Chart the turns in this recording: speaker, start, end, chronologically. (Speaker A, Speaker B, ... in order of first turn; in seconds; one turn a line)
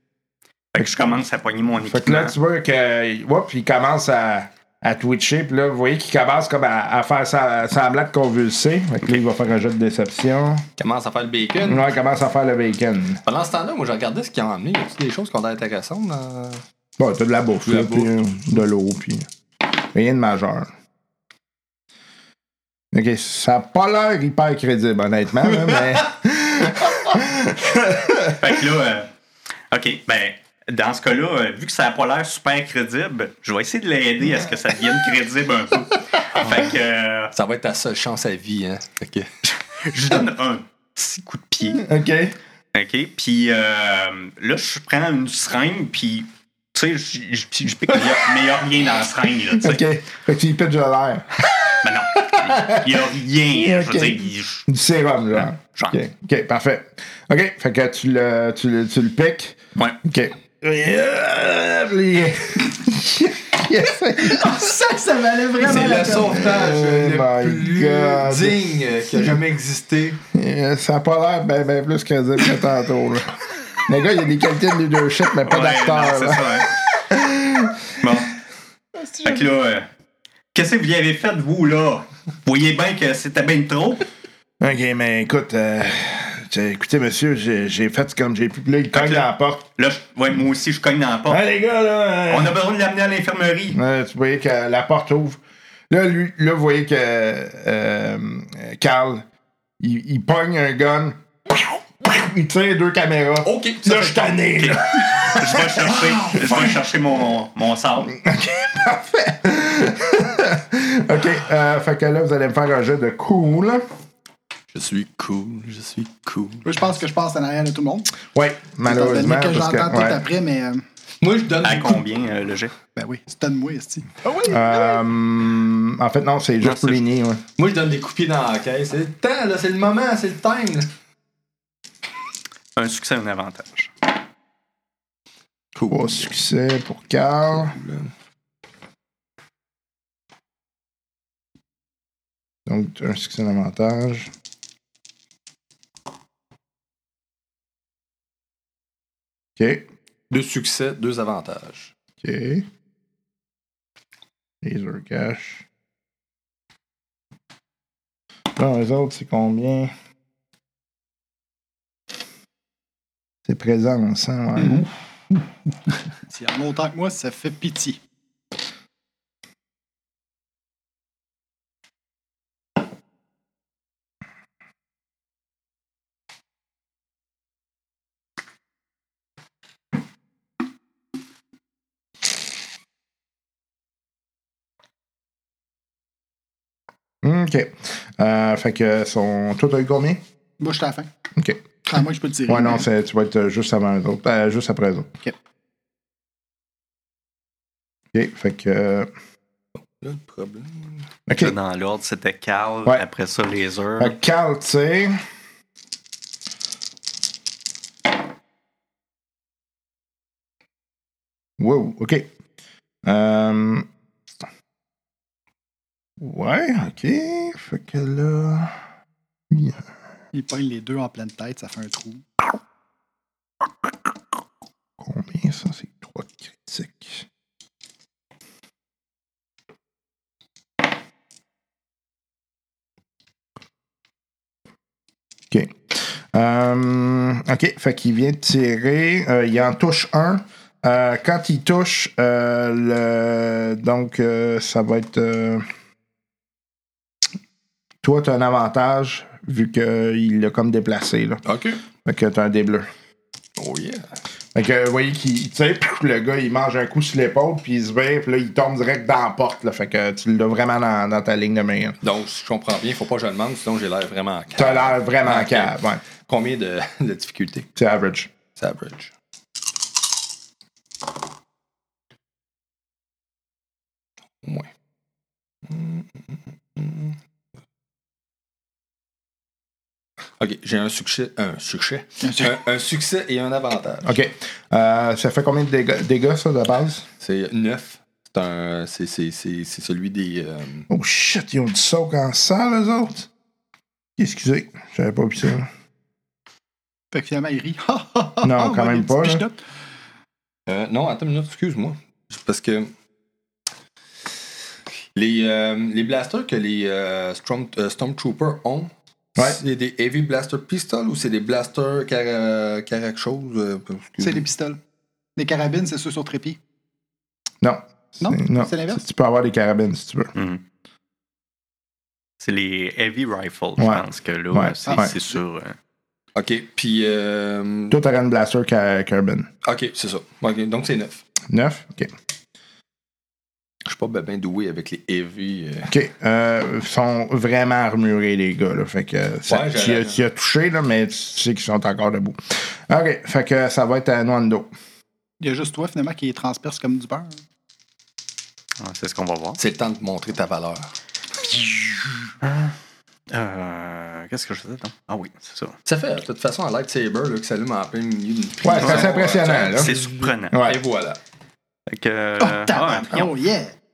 Speaker A: 0.7-2.3
Speaker B: 0.8-1.2
Speaker B: 1.8-10.7
Speaker C: 10.8-11.9
Speaker B: 11.6-13.2
Speaker C: 13.2-16.6
Speaker B: 17.0-19.2
Speaker C: 17.6-18.1
Speaker B: 19.9-20.7
Speaker B: 22.9-28.4
Speaker A: 28.4-29.1
Speaker A: 29.7-37.3
Speaker C: 37.3-39.3
Speaker A: 39.8-41.8
Speaker B: 41.7-42.3
Speaker A: 42.7-49.8
Speaker B: 49.6-64.7
Speaker A: 51.8-54.6
Speaker A: 55.3-56.0
Speaker D: 64.2-66.5
Speaker C: 65.6-70.2
Speaker B: 66.4-68.6
Speaker B: 70.3-78.1
Speaker A: 75.5-76.7
Speaker A: 78.0-78.3
Speaker D: 79.0-79.5
Speaker A: 79.2-79.9
Speaker A: 80.5-84.1
Speaker B: 84.6-89.7
Speaker A: 88.9-91.4
Speaker B: 91.3-92.6
Speaker A: 92.3-93.8
Speaker B: 93.7-99.2
Speaker B: 99.8-106.7
Speaker C: 103.4-104.3
Speaker A: 104.6-108.2
Speaker B: 108.2-113.8
Speaker C: 114.7-116.6
Speaker D: 116.6-118.1
Speaker B: 118.3-120.2
Speaker D: 118.8-120.8
Speaker C: 121.2-122.0
Speaker A: 121.6-122.7
Speaker D: 123.0-125.0
Speaker B: 124.5-127.4
Speaker A: 126.6-127.0
Speaker C: 127.6-130.9
Speaker A: 132.8-133.9
Speaker C: 135.7-136.3
Speaker B: 135.9-137.8
Speaker C: 137.5-138.1
Speaker B: 142.7-144.3
Speaker B: 149.6-149.9
Speaker C: 150.3-151.9
Speaker B: 152.2-152.7
Speaker B: 154.6-155.7
Speaker B: 158.5-159.9
Speaker B: 163.4-164.9
Speaker D: 166.3-168.0
Speaker B: 187.2-190.2
Speaker D: 190.6-191.1
Speaker B: 191.3-191.6
Speaker D: 191.9-192.8
Speaker B: 192.5-195.1
Speaker B: 198.1-199.1
Speaker C: 200.0-201.0
Speaker B: 201.3-201.6
Speaker A: 201.4-204.1
Speaker B: 204.0-205.2
Speaker B: 211.6-212.3
Speaker B: 213.0-213.9
Speaker B: 216.2-218.8
Speaker B: 219.5-219.9
Speaker D: 220.3-222.2
Speaker B: 225.0-227.2
Speaker B: 235.5-245.7
Speaker B: 248.0-251.4
Speaker C: 251.4-251.8
Speaker B: 252.0-252.9
Speaker C: 253.6-254.1
Speaker B: 254.5-262.0
Speaker C: 262.0-267.7
Speaker B: 264.6-266.0
Speaker B: 267.8-268.3
Speaker C: 268.6-269.1
Speaker C: 274.4-274.7
Speaker C: 275.6-277.2
Speaker C: 280.4-284.1
Speaker D: 282.2-282.5
Speaker B: 284.0-287.1
Speaker C: 287.2-290.9
Speaker B: 290.9-293.3
Speaker B: 294.2-295.7
Speaker D: 297.1-299.6
Speaker B: 298.4-299.4
Speaker C: 300.7-302.9
Speaker C: 305.1-314.4
Speaker D: 314.2-314.8
Speaker D: 315.4-316.6
Speaker B: 317.6-320.3
Speaker D: 318.2-319.0
Speaker A: 320.3-320.6
Speaker A: 322.4-325.8
Speaker B: 323.8-325.1
Speaker C: 326.4-328.0
Speaker B: 327.9-329.5
Speaker C: 329.6-331.2
Speaker B: 331.5-332.1
Speaker C: 333.9-335.9
Speaker B: 335.9-344.7
Speaker C: 339.5-340.2
Speaker D: 345.4-347.4
Speaker A: 348.8-349.6
Speaker C: 349.6-350.9
Speaker A: 352.4-352.7
Speaker A: 353.3-355.8
Speaker C: 355.8-361.2
Speaker B: 358.6-359.9
Speaker A: 358.8-359.2
Speaker A: 359.7-360.6
Speaker B: 360.5-360.8
Speaker A: 361.9-363.4
Speaker D: 362.4-363.7